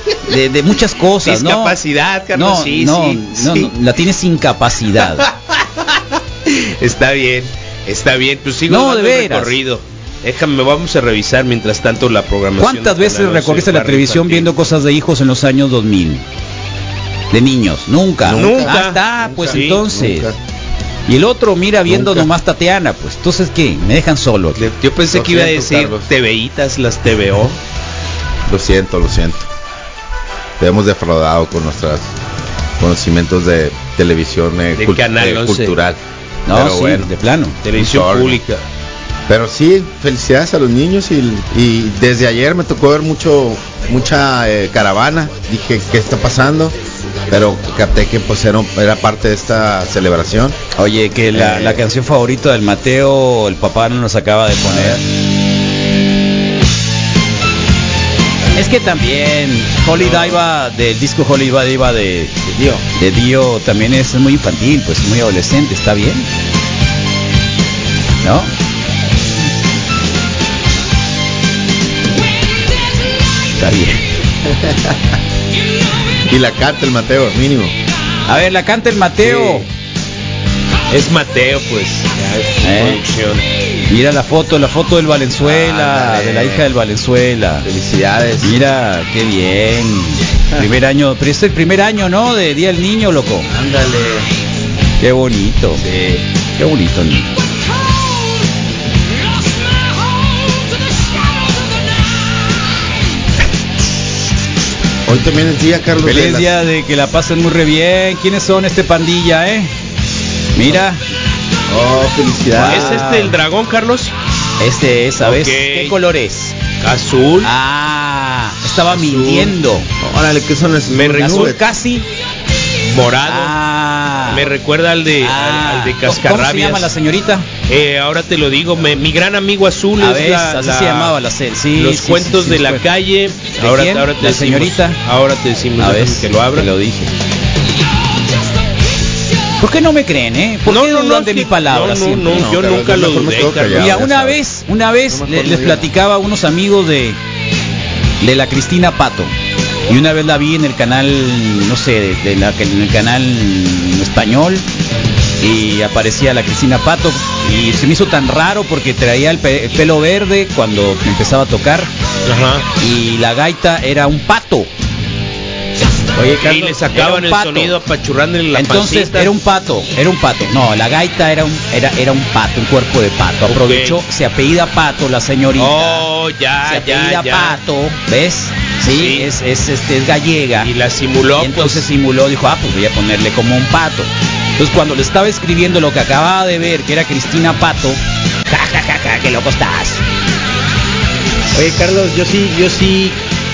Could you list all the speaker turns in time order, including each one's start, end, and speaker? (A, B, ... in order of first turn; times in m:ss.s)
0:00.3-0:01.8 A
0:01.2-0:03.7 B
0:02.3-0:05.2 A
0:06.5-0:14.5 B
0:08.7-0:09.6 A
0:12.6-0:16.2 A
0:17.3-0:20.3 A
0:18.2-0:20.4 C
0:18.3-0:19.8 B
0:21.1-0:24.7 A
0:21.9-0:22.3 C
0:24.6-0:27.6 B
0:25.1-0:26.1 C
0:28.5-0:29.4 C
0:30.6-0:32.1 C
0:32.8-0:36.0 C
0:34.8-0:35.8 B
0:36.5-0:37.7 A
0:36.5-0:37.1 C
0:37.6-0:38.6 B
0:37.8-0:38.4 C
0:39.3-0:46.8 C
0:47.3-0:50.6 C
0:50.8-0:55.0 A
0:51.3-0:51.8 C
0:54.7-0:55.0 C
0:58.5-1:02.4 A
1:02.5-1:02.8 C
1:03.0-1:06.3 A
1:08.2-1:08.5 A
1:13.6-1:14.0 A
1:14.4-1:15.0 C
1:16.3-1:17.7 C
1:18.3-1:19.6 A
1:19.3-1:19.6 B
1:20.9-1:23.4 B
1:22.6-1:23.0 A
1:23.9-1:27.7 A
1:25.4-1:26.6 C
1:27.6-1:28.6 C
1:28.4-1:33.5 A
1:33.5-1:34.3 C
1:35.0-1:35.8 A
1:35.8-1:36.2 C
1:36.6-1:37.3 A
1:45.0-1:46.5 C
1:46.0-1:49.7 A
1:50.5-1:51.0 A
1:51.7-1:53.0 C
1:52.5-1:53.4 A
1:52.6-1:54.1 B
1:54.6-1:56.6 A
1:55.2-1:56.0 B
1:56.8-1:57.5 B
1:57.4-1:59.9 A
1:58.9-2:01.6 C
2:00.9-2:01.5 B
2:01.1-2:02.0 A
2:02.9-2:03.6 B
2:03.2-2:04.5 A
2:04.3-2:06.9 B
2:05.2-2:07.5 A
2:07.7-2:11.1 B
2:10.0-2:12.9 A
2:11.8-2:16.7 B
2:13.6-2:15.0 A
2:15.8-2:17.1 A
2:19.6-2:22.6 A
2:20.6-2:23.9 B
2:22.3-2:24.4 C
2:23.7-2:27.2 A
2:25.1-2:25.9 C
2:28.2-2:29.3 A
2:29.9-2:34.6 A
2:35.4-2:41.9 A
2:42.2-2:42.6 B
2:42.8-2:44.7 A
2:46.2-2:46.7 D
2:46.3-2:49.3 B
2:46.7-2:47.8 A
2:48.5-2:56.1 A
2:53.4-2:54.0 B
2:55.5-2:57.6 B
2:56.6-3:00.7 A
2:58.9-2:59.3 B
3:00.6-3:01.9 B
3:01.4-3:10.0 A
3:11.5-3:13.2 D